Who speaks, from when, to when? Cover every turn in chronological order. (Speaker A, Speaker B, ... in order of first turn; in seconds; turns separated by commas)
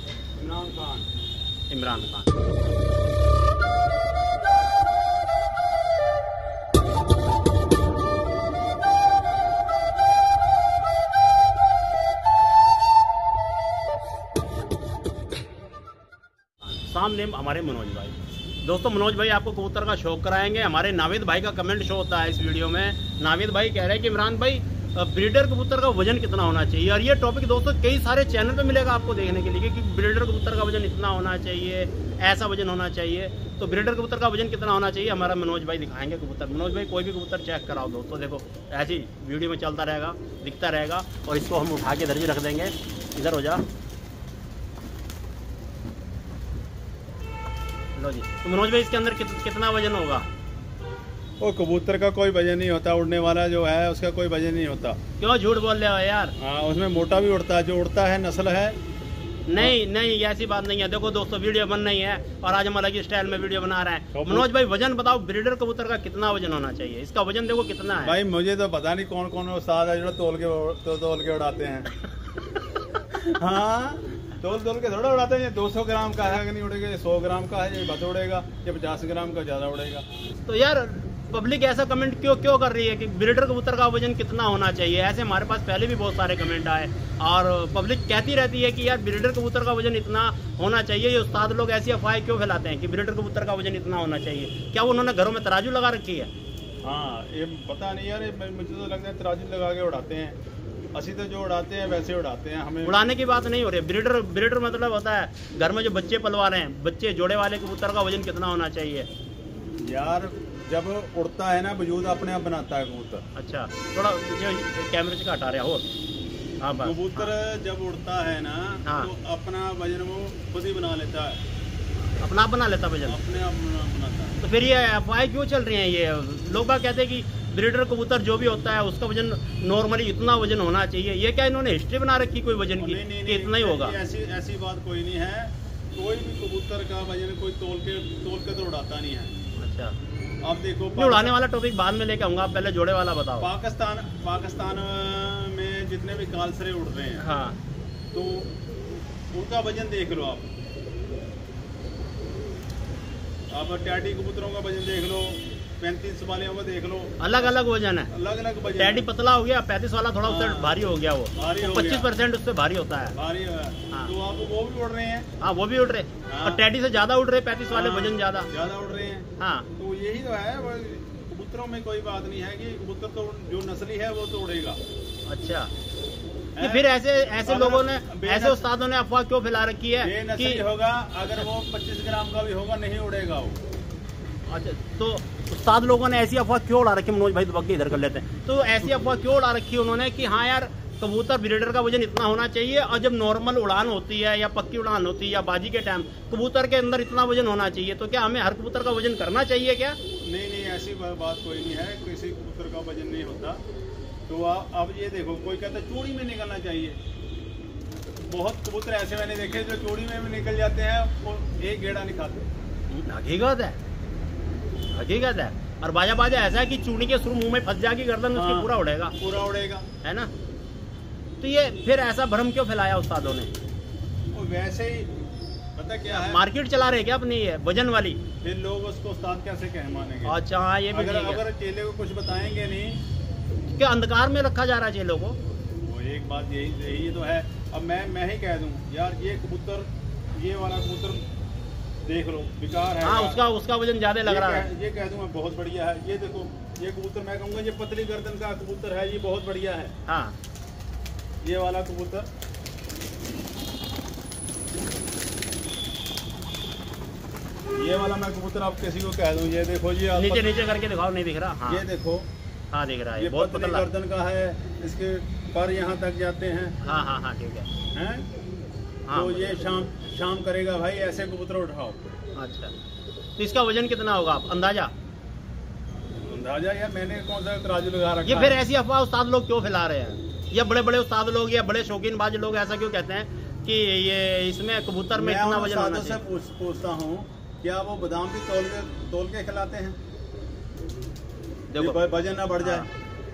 Speaker A: 0.4-1.1, Speaker B: 1.7-2.4, Speaker B: 16.7-43.6, Speaker B: 48.0-50.3, Speaker A: 51.4-55.0, Speaker B: 55.2-56.3, Speaker A: 56.4-58.8, Speaker B: 59.5-68.2, Speaker A: 64.1-64.5, Speaker A: 68.0-71.9, Speaker A: 73.1-80.0, Speaker B: 80.4-96.3, Speaker A: 96.8-100.4, Speaker A: 100.9-103.0, Speaker B: 102.8-109.1, Speaker A: 109.8-113.3, Speaker B: 113.3-115.9, Speaker B: 116.6-117.3, Speaker A: 116.8-121.4, Speaker B: 118.8-119.1, Speaker B: 122.0-123.2, Speaker A: 123.1-124.4, Speaker B: 124.4-134.0, Speaker A: 132.8-139.3, Speaker B: 139.6-139.9, Speaker A: 140.4-141.4, Speaker B: 141.0-143.5, Speaker A: 143.4-147.2, Speaker B: 147.2-147.6, Speaker A: 148.1-148.5, Speaker A: 149.3-150.5, Speaker A: 153.5-157.5, Speaker B: 157.2-158.1, Speaker A: 158.1-159.1, Speaker B: 158.8-163.2, Speaker A: 160.2-160.8, Speaker A: 161.3-162.1, Speaker A: 163.2-165.3, Speaker B: 165.4-168.5, Speaker A: 166.3-166.6, Speaker A: 167.7-174.8, Speaker B: 169.4-169.7, Speaker B: 175.3-175.7, Speaker A: 176.6-176.9, Speaker B: 176.6-180.6, Speaker A: 177.4-178.7, Speaker A: 180.0-183.6, Speaker B: 184.5-200.0, Speaker A: 200.2-203.6, Speaker A: 204.3-207.0, Speaker A: 208.2-212.5, Speaker B: 212.9-213.8, Speaker B: 214.9-219.2, Speaker A: 218.3-219.9, Speaker B: 220.0-220.3, Speaker B: 221.4-223.5, Speaker A: 224.3-225.1, Speaker A: 225.8-226.4, Speaker B: 226.1-228.2, Speaker A: 228.4-230.4, Speaker B: 230.3-231.4, Speaker A: 230.9-233.0, Speaker B: 233.7-235.4, Speaker A: 235.8-241.2, Speaker A: 242.1-243.4, Speaker B: 243.0-244.7, Speaker A: 244.2-249.9, Speaker B: 250.1-250.4, Speaker A: 251.4-252.3, Speaker A: 257.7-260.6, Speaker B: 260.2-261.9, Speaker A: 261.7-262.3, Speaker B: 262.7-263.9, Speaker A: 263.2-266.8, Speaker B: 266.8-267.7, Speaker A: 267.9-268.3, Speaker B: 269.1-269.6, Speaker A: 269.1-272.2, Speaker B: 272.4-272.7, Speaker B: 273.4-274.9, Speaker A: 276.1-278.6, Speaker B: 278.3-286.2, Speaker A: 285.1-290.0, Speaker B: 291.7-292.0, Speaker A: 291.8-292.9, Speaker B: 292.6-292.9